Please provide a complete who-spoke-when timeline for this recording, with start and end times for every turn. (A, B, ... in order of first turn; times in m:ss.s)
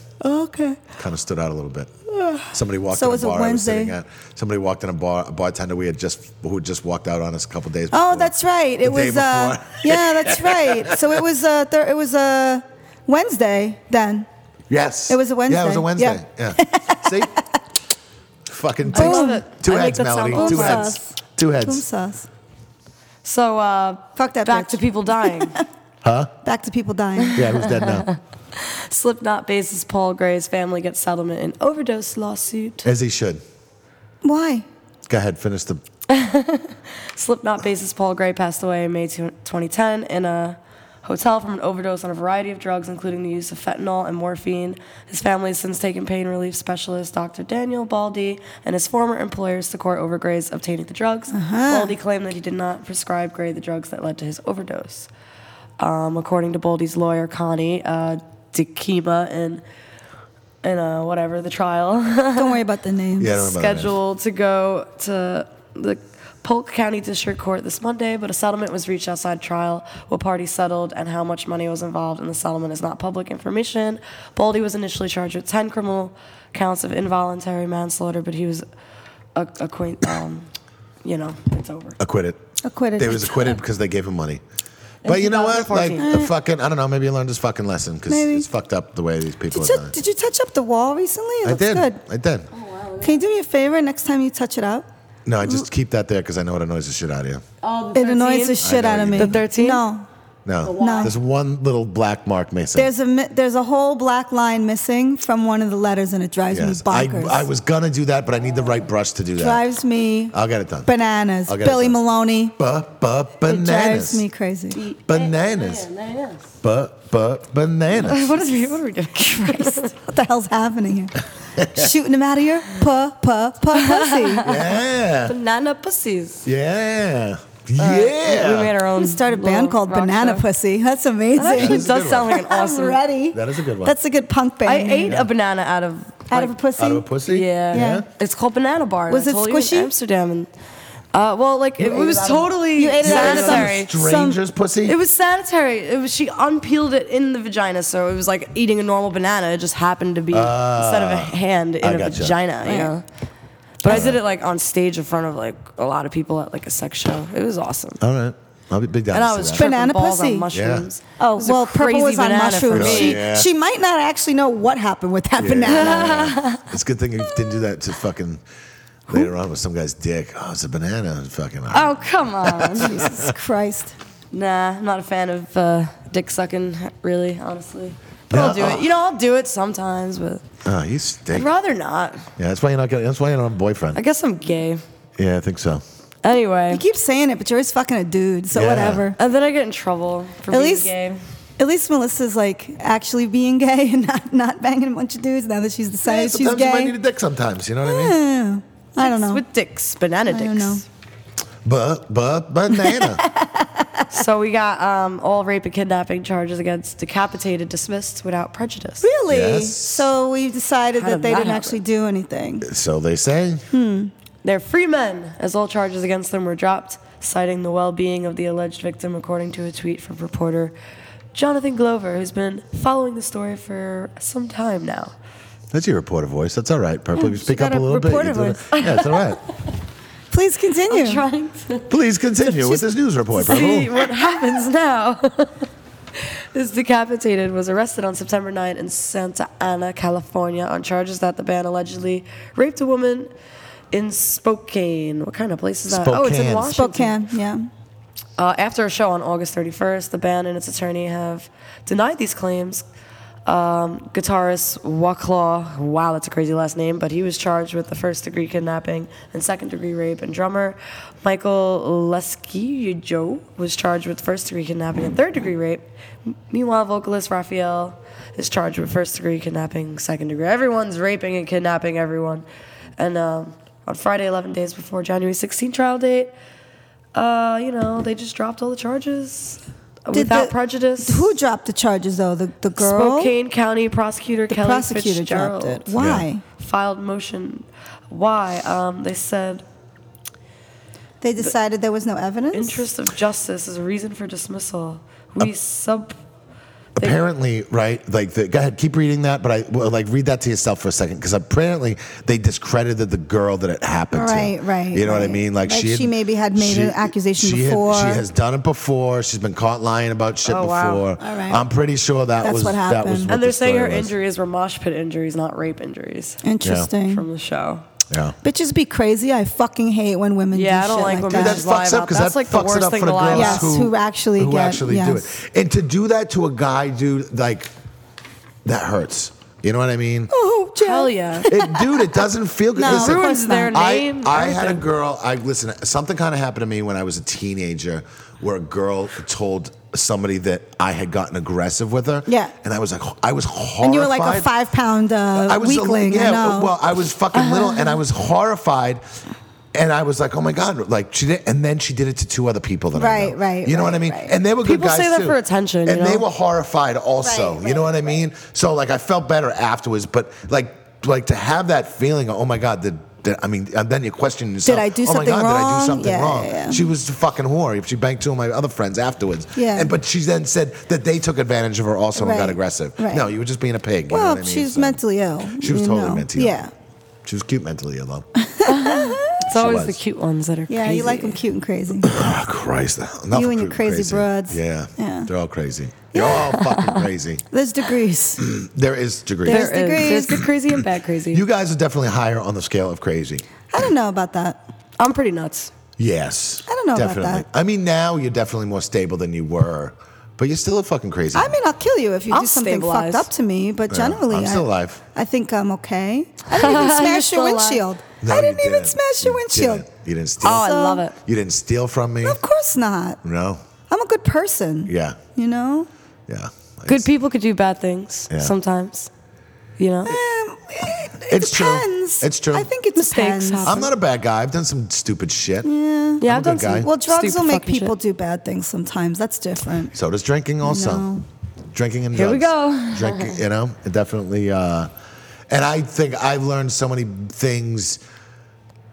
0:00.2-0:00.8 A
0:01.0-0:01.9 B
0:02.2-0:03.9 A
0:02.5-0:11.2 B
0:07.9-0:14.3 A
0:14.7-0:17.3 B
0:15.1-0:17.4 A
0:18.4-0:21.8 B
0:18.9-0:19.4 A
0:18.9-0:20.9 C
0:20.3-0:22.3 A
0:23.2-0:25.6 C
0:24.2-0:25.6 A
0:26.0-0:26.3 B
0:26.4-0:27.4 A
0:27.2-0:32.8 C
0:27.3-0:28.1 B
0:32.8-0:33.4 B
0:34.2-0:34.6 A
0:35.1-0:35.8 B
0:36.1-0:55.1 C
0:51.3-0:51.9 A
0:55.8-0:59.6 C
1:00.6-1:02.6 C
1:02.3-1:03.4 A
1:03.2-1:04.0 B
1:03.3-1:18.6 C
1:19.3-1:20.5 C
1:21.0-1:22.0 C
1:22.0-1:22.4 B
1:22.6-1:23.6 A
1:23.0-1:24.4 B
1:25.0-1:26.1 C
1:25.0-1:29.9 B
1:26.0-1:26.3 A
1:28.1-1:28.4 A
1:29.5-1:32.0 A
1:31.4-1:32.5 B
1:32.5-1:33.2 C
1:33.0-1:34.8 A
1:35.2-1:37.4 B
1:37.6-1:38.6 C
1:37.9-1:40.0 A
1:38.6-1:39.4 B
1:39.1-1:39.8 C
1:40.4-1:42.9 B
1:40.6-1:41.1 C
1:40.7-1:41.1 A
1:42.7-1:47.4 A
1:46.5-1:49.6 B
1:49.4-1:52.5 A
1:50.3-1:50.9 B
1:51.5-1:52.0 B
1:52.6-1:54.2 B
1:53.4-1:54.8 A
1:54.8-1:56.4 C
1:55.1-1:55.9 B
1:56.6-1:58.4 B
1:58.0-1:59.9 C
1:59.2-2:04.5 A
2:01.6-2:01.9 B
2:03.7-2:06.4 C
2:04.4-2:05.3 B
2:06.4-2:08.8 B
2:07.8-2:10.4 C
2:08.9-2:15.2 A
2:11.4-2:13.0 C
2:11.5-2:12.3 B
2:13.3-2:13.9 B
2:14.6-2:16.5 C
2:16.3-2:17.1 A
2:16.8-2:18.0 B
2:17.3-2:20.5 C
2:17.7-2:18.0 A
2:19.1-2:19.9 A
2:21.1-2:23.9 C
2:21.8-2:25.0 B
2:22.8-2:24.4 A
2:24.8-2:33.0 C
2:30.3-2:32.4 B
2:32.6-2:32.9 A
2:33.8-2:38.0 C
2:33.8-2:34.2 B
2:38.0-2:39.7 B
2:39.1-2:43.2 C
2:39.5-2:40.5 A
2:40.5-2:40.9 B
2:41.2-2:46.3 A
2:42.7-2:43.5 B
2:45.4-2:48.4 B
2:45.6-2:46.6 C
2:49.1-2:53.3 B
2:51.7-2:53.0 C
2:52.8-2:53.9 A
2:54.3-3:00.4 C
2:58.3-2:58.9 B
3:00.6-3:01.5 B
3:01.3-3:02.3 C
3:02.4-3:04.0 B
3:03.9-3:04.8 C
3:05.2-3:05.8 B
3:06.2-3:06.8 C
3:06.7-3:09.2 A
3:08.5-3:09.1 B
3:09.2-3:11.2 C
3:10.5-3:10.9 A
3:11.6-3:16.9 A
3:16.0-3:18.2 B
3:17.8-3:19.4 A
3:19.0-3:20.8 C
3:20.3-3:20.8 A
3:21.6-3:23.2 B
3:22.7-3:24.2 A
3:24.1-3:29.0 C
3:29.0-3:32.7 A
3:29.3-3:30.1 B
3:31.0-3:31.8 C
3:32.6-3:33.6 B
3:33.7-3:34.1 A
3:34.4-3:40.7 C
3:41.3-3:45.1 C
3:45.7-3:49.4 B
3:47.2-3:48.7 A
3:48.7-3:49.4 C
3:50.3-3:51.2 A
3:50.9-3:51.9 C
3:51.9-3:54.0 B
3:52.4-3:52.8 A
3:53.4-3:53.6 A
3:53.4-4:03.3 C
4:03.9-4:07.2 C
4:05.9-4:06.7 B
4:06.6-4:07.7 A
4:08.4-4:12.8 C
4:13.4-4:32.4 C
4:33.0-4:36.3 C
4:37.1-4:41.3 C
4:40.1-4:43.3 A
4:42.8-4:45.9 C
4:44.5-4:46.4 A
4:46.0-4:46.2 B
4:46.6-4:49.6 C
4:51.2-4:52.9 A
4:52.5-4:56.1 C
4:57.0-5:14.1 B
5:04.1-5:08.2 A
5:10.4-5:11.1 C
5:11.2-5:11.6 A
5:12.4-5:13.3 A
5:13.3-5:16.4 C
5:16.4-5:17.2 A
5:16.6-5:16.9 B
5:16.9-5:17.8 C
5:18.1-5:18.4 B
5:18.4-5:21.6 A
5:20.5-5:23.7 C
5:21.3-5:27.7 B
5:23.3-5:25.3 A
5:28.6-5:30.3 B
5:30.3-5:32.2 A
5:30.8-5:31.5 C
5:31.5-5:44.5 B
5:32.8-5:33.8 A
5:32.8-5:34.8 C
5:42.3-5:42.5 A
5:43.8-5:46.7 A
5:45.3-5:49.0 B
5:47.3-5:48.0 C
5:49.7-6:15.0 B
5:52.9-5:54.3 A
5:54.6-5:56.2 C
5:57.2-5:58.1 A
6:04.6-6:06.8 A
6:09.6-6:09.9 A
6:12.1-6:13.3 A
6:14.1-6:16.7 A
6:15.6-6:16.6 B
6:17.2-6:18.2 B
6:18.4-6:19.5 A
6:18.6-6:21.4 C
6:19.5-6:20.0 B
6:20.7-6:22.2 A
6:22.0-6:27.4 B
6:23.3-6:25.3 A
6:26.1-6:26.5 A
6:26.5-6:27.0 C
6:27.5-6:28.4 A
6:28.4-6:30.8 B
6:29.4-6:30.4 A
6:29.4-6:31.4 C
6:31.3-6:33.4 B
6:33.7-6:34.6 A
6:35.0-6:35.7 C
6:36.0-6:41.6 B
6:36.7-6:37.4 A
6:41.3-6:49.8 A
6:42.3-6:43.3 C
6:43.9-6:45.0 B
6:46.5-6:47.8 C
6:48.2-6:52.4 B
6:50.4-6:51.0 A
6:50.4-6:51.1 C
6:52.2-6:53.2 A
6:53.2-6:53.6 B
6:53.9-6:55.9 A
6:54.9-6:55.2 B
6:56.3-6:57.1 B
6:56.9-6:59.1 C
6:59.8-7:00.2 C
7:00.0-7:03.8 A
7:01.3-7:02.7 B
7:02.9-7:03.9 C
7:03.6-7:05.7 B
7:05.6-7:06.2 A
7:06.2-7:06.9 B
7:06.2-7:07.9 C
7:06.8-7:09.9 A
7:09.9-7:11.1 B
7:10.6-7:11.2 A
7:11.7-7:14.9 B
7:12.1-7:13.4 C
7:15.5-7:18.0 B